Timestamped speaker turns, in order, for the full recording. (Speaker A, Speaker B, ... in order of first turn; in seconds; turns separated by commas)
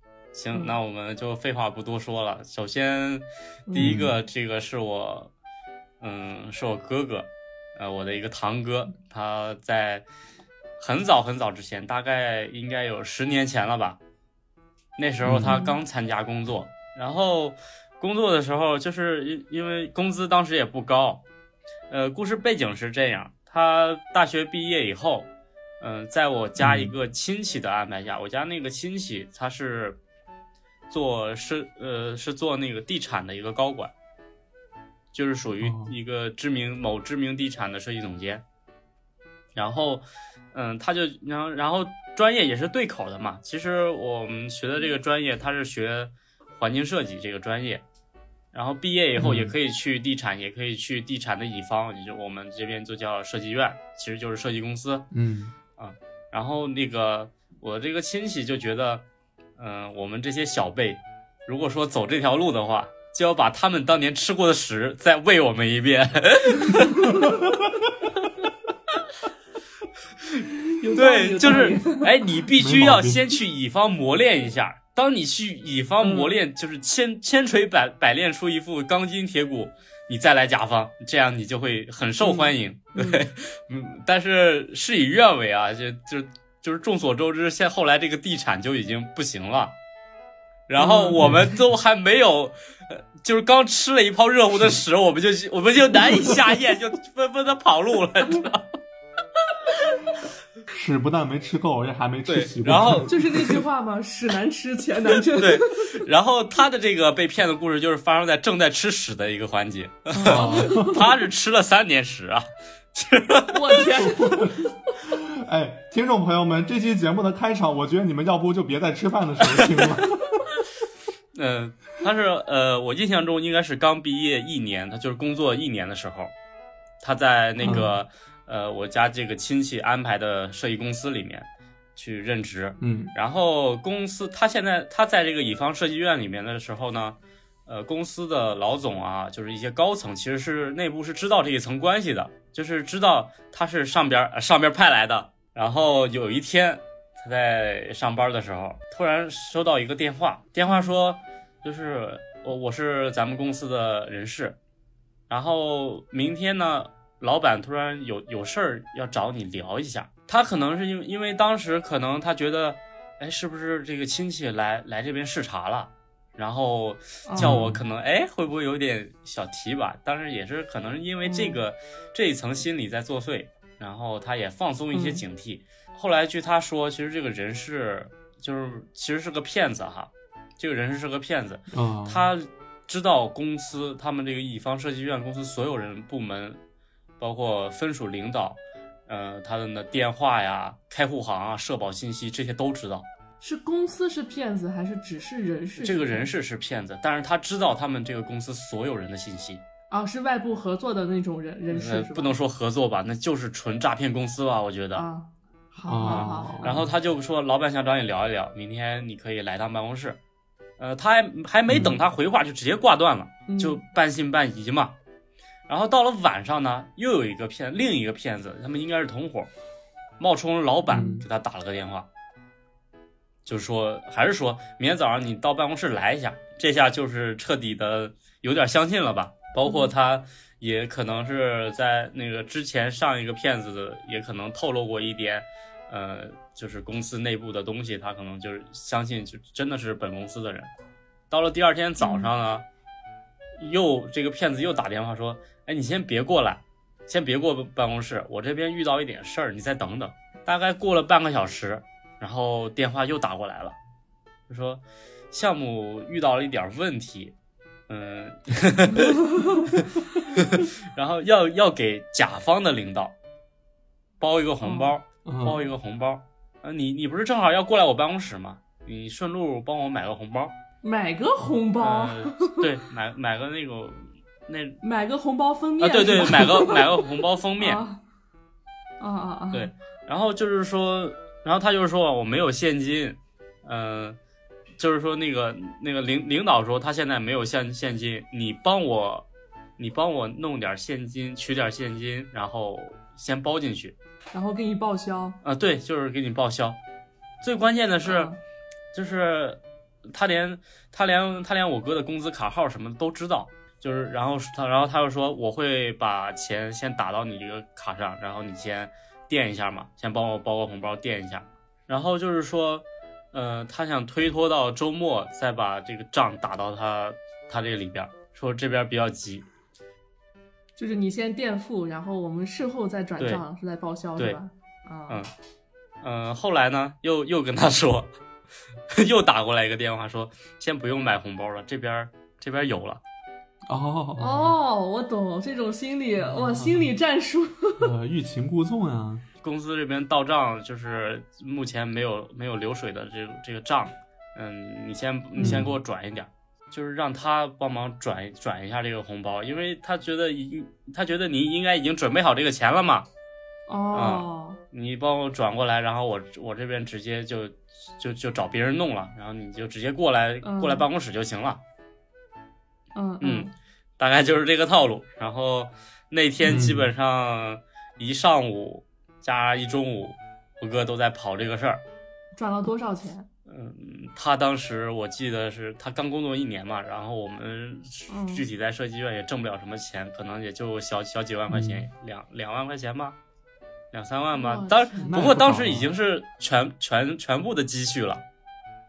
Speaker A: 0.3-5.3, Speaker B: 3.7-4.0, Speaker C: 3.8-4.1, Speaker A: 6.0-10.0, Speaker A: 10.8-14.0, Speaker A: 15.0-21.2, Speaker C: 15.2-15.7, Speaker A: 21.9-25.3, Speaker A: 25.8-30.0, Speaker C: 26.6-26.9, Speaker A: 30.9-33.9, Speaker A: 35.1-38.4, Speaker C: 35.6-35.9, Speaker A: 39.5-47.8, Speaker A: 48.5-55.1, Speaker C: 49.1-49.5, Speaker C: 55.1-55.5, Speaker A: 55.8-59.0, Speaker A: 59.6-67.2, Speaker B: 67.0-67.3, Speaker B: 70.8-72.1, Speaker A: 70.9-89.7, Speaker C: 72.5-73.2, Speaker B: 76.0-76.3, Speaker B: 82.2-83.2, Speaker A: 90.7-98.7, Speaker B: 90.8-91.2, Speaker C: 100.7-103.6, Speaker A: 102.2-103.1, Speaker B: 103.1-105.9, Speaker A: 105.3-113.8, Speaker B: 110.1-111.0, Speaker C: 110.2-111.2, Speaker B: 113.5-114.7, Speaker C: 114.0-120.3, Speaker A: 121.3-126.3, Speaker A: 127.0-154.6, Speaker C: 127.6-127.9, Speaker B: 127.6-127.9, Speaker C: 132.8-133.1, Speaker B: 150.7-150.9, Speaker A: 155.3-186.6, Speaker B: 167.3-167.6, Speaker C: 167.4-167.8, Speaker B: 171.2-171.6, Speaker B: 174.9-175.2, Speaker C: 181.7-182.3, Speaker A: 187.2-193.1, Speaker B: 193.4-196.3, Speaker A: 195.8-199.6, Speaker B: 199.9-202.3, Speaker A: 201.7-205.0, Speaker B: 204.9-206.8, Speaker C: 205.8-206.9, Speaker A: 206.0-210.2, Speaker A: 210.8-214.9, Speaker C: 211.7-212.0, Speaker B: 213.5-213.8, Speaker A: 215.7-219.5, Speaker A: 220.2-222.1, Speaker C: 220.9-221.2, Speaker A: 223.4-240.7, Speaker B: 229.6-229.9, Speaker A: 241.3-242.6, Speaker B: 242.0-242.3, Speaker A: 243.6-253.8, Speaker A: 254.5-257.3, Speaker A: 257.9-263.1, Speaker B: 259.3-259.6, Speaker A: 264.2-270.5, Speaker B: 264.6-264.9, Speaker C: 265.2-265.7, Speaker B: 270.8-272.6, Speaker A: 271.8-274.8, Speaker B: 274.8-277.0, Speaker A: 275.8-277.8, Speaker B: 277.6-278.0, Speaker B: 279.0-279.7, Speaker A: 279.5-284.2, Speaker A: 284.8-289.2, Speaker A: 289.8-293.9, Speaker B: 294.3-295.4, Speaker A: 295.4-296.8, Speaker A: 297.4-298.3, Speaker B: 298.0-298.4, Speaker A: 298.9-319.4, Speaker B: 320.8-325.2, Speaker A: 323.2-323.4, Speaker A: 326.0-328.1, Speaker A: 328.9-333.0, Speaker C: 333.7-334.6, Speaker B: 334.2-337.9, Speaker C: 336.2-336.9, Speaker C: 337.8-339.2, Speaker A: 339.4-353.1, Speaker B: 345.3-345.6, Speaker C: 345.4-345.8, Speaker B: 353.7-354.6, Speaker A: 353.9-361.6, Speaker B: 360.4-360.9, Speaker B: 362.9-363.5, Speaker A: 363.2-371.8, Speaker C: 366.4-366.9, Speaker B: 372.4-373.3, Speaker A: 373.5-383.2, Speaker B: 378.1-378.4, Speaker C: 381.5-381.9, Speaker A: 383.9-388.2, Speaker B: 384.3-385.3, Speaker C: 385.0-385.9